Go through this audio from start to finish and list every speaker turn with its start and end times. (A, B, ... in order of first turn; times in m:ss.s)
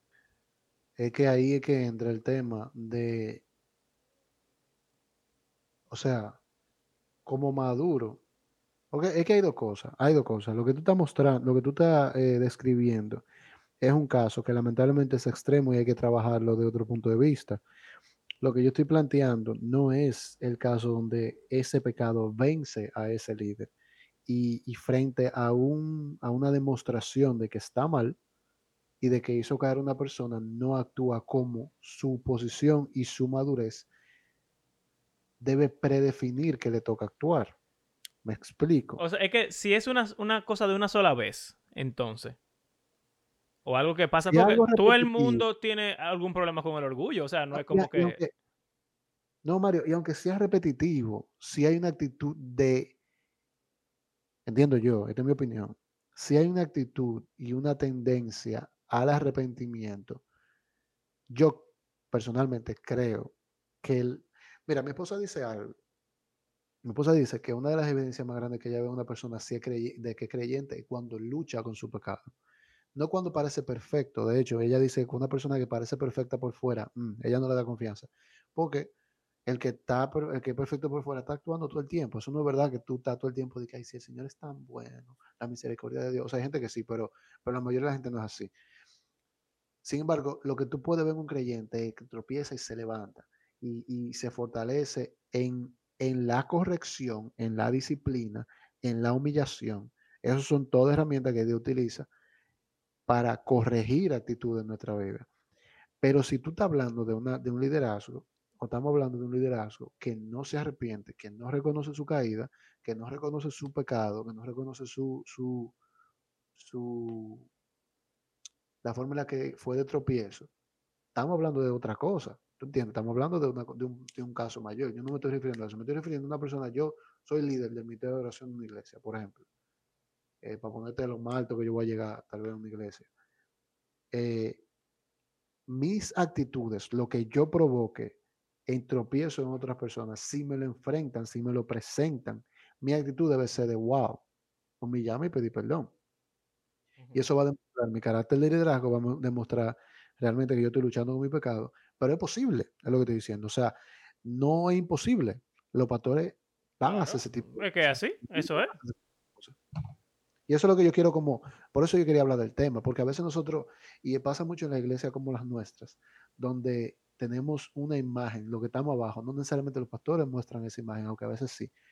0:01.0-0:03.4 A
0:05.9-0:06.4 A
0:07.2-0:08.2 A
0:08.9-0:13.2 A
0:13.8-0:17.6 A
0:18.4-0:23.7 A
0:24.3-0:28.2 A
0:29.0-0:33.9 A
0:35.4-0:37.5 A
0:38.2-0:39.0 A
0:39.0-0:42.4 B
0:43.6-0:48.2 B
0:44.3-0:45.4 A
0:47.5-0:48.3 A
0:49.4-0:52.9 A
0:54.4-1:00.2 A
1:01.3-1:05.8 A
1:06.8-1:12.3 A
1:12.9-1:18.9 A
1:19.4-1:28.5 A
1:29.8-1:42.1 A
1:43.1-1:45.3 A
1:46.0-1:55.7 A
1:56.6-1:57.5 A
1:58.8-2:00.5 A
2:01.1-2:09.4 A
2:10.4-2:13.1 A
2:14.1-2:14.6 A
2:15.7-2:24.2 A
2:24.8-2:25.9 A
2:27.0-2:27.2 B
2:27.1-2:39.6 A
2:36.8-2:38.7 B
2:40.5-2:51.7 A